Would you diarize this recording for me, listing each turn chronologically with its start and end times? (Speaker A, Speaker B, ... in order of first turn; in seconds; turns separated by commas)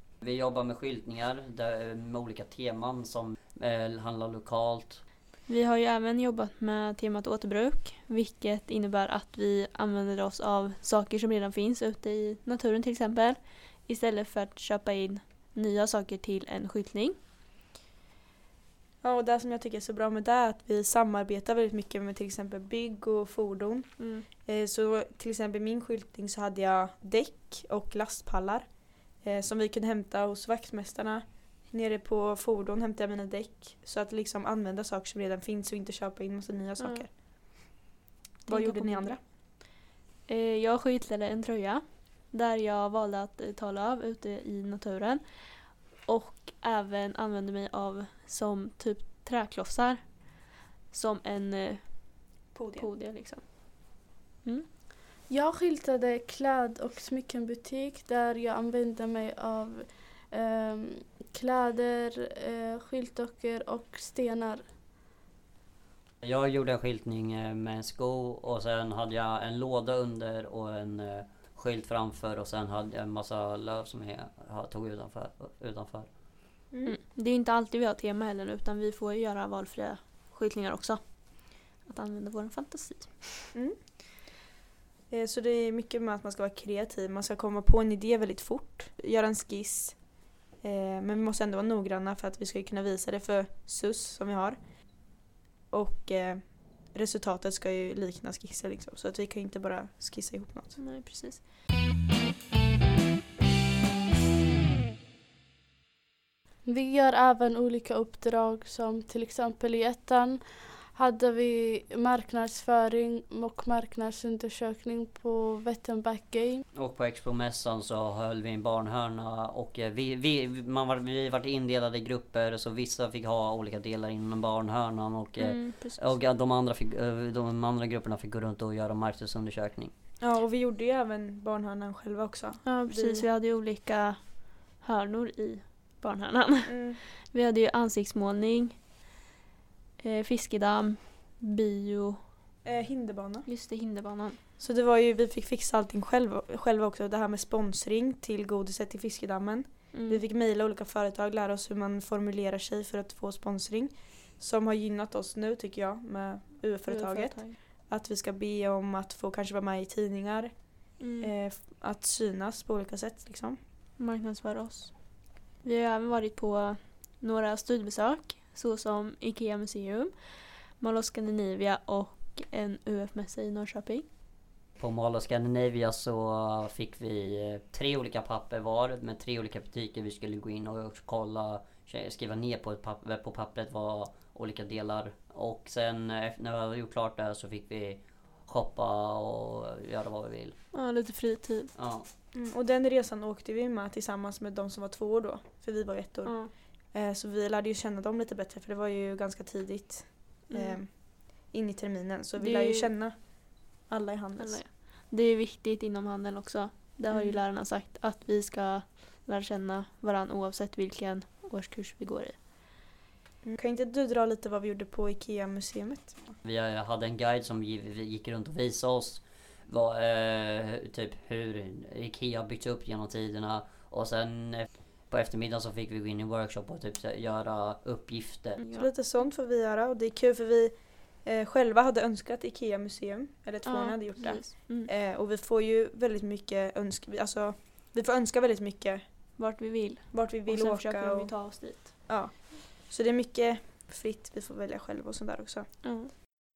Speaker A: 0.2-5.0, Speaker B: 5.5-17.1, Speaker C: 19.0-37.8, Speaker B: 24.0-24.3, Speaker B: 36.8-37.0, Speaker B: 38.5-39.3, Speaker C: 38.5-39.2, Speaker B: 40.3-53.8, Speaker C: 52.5-52.9, Speaker D: 55.3-64.7, Speaker A: 66.2-76.2, Speaker C: 76.7-77.0, Speaker B: 76.8-83.5, Speaker C: 83.5-84.0, Speaker C: 85.1-100.8, Speaker B: 100.8-101.4, Speaker D: 106.6-116.6, Speaker A: 116.7-129.9, Speaker B: 125.4-126.1, Speaker C: 130.2-133.3, Speaker B: 132.6-138.8, Speaker C: 136.6-137.0, Speaker B: 140.0-142.2, Speaker C: 142.6-143.4, Speaker B: 143.4-144.4, Speaker C: 144.6-163.6, Speaker B: 149.9-150.2, Speaker B: 156.8-157.6, Speaker B: 161.0-161.3, Speaker B: 164.0-174.1, Speaker A: 174.8-190.6, Speaker B: 190.7-191.9, Speaker A: 191.7-192.1, Speaker C: 192.3-204.6, Speaker B: 196.2-196.5, Speaker B: 200.5-200.8, Speaker B: 202.4-203.0, Speaker B: 204.4-212.3, Speaker C: 207.1-207.4, Speaker C: 213.4-216.3, Speaker A: 216.4-228.6, Speaker B: 228.6-228.9, Speaker C: 228.7-239.4, Speaker B: 233.6-234.9, Speaker B: 239.3-242.1, Speaker C: 240.1-245.7, Speaker B: 245.8-246.1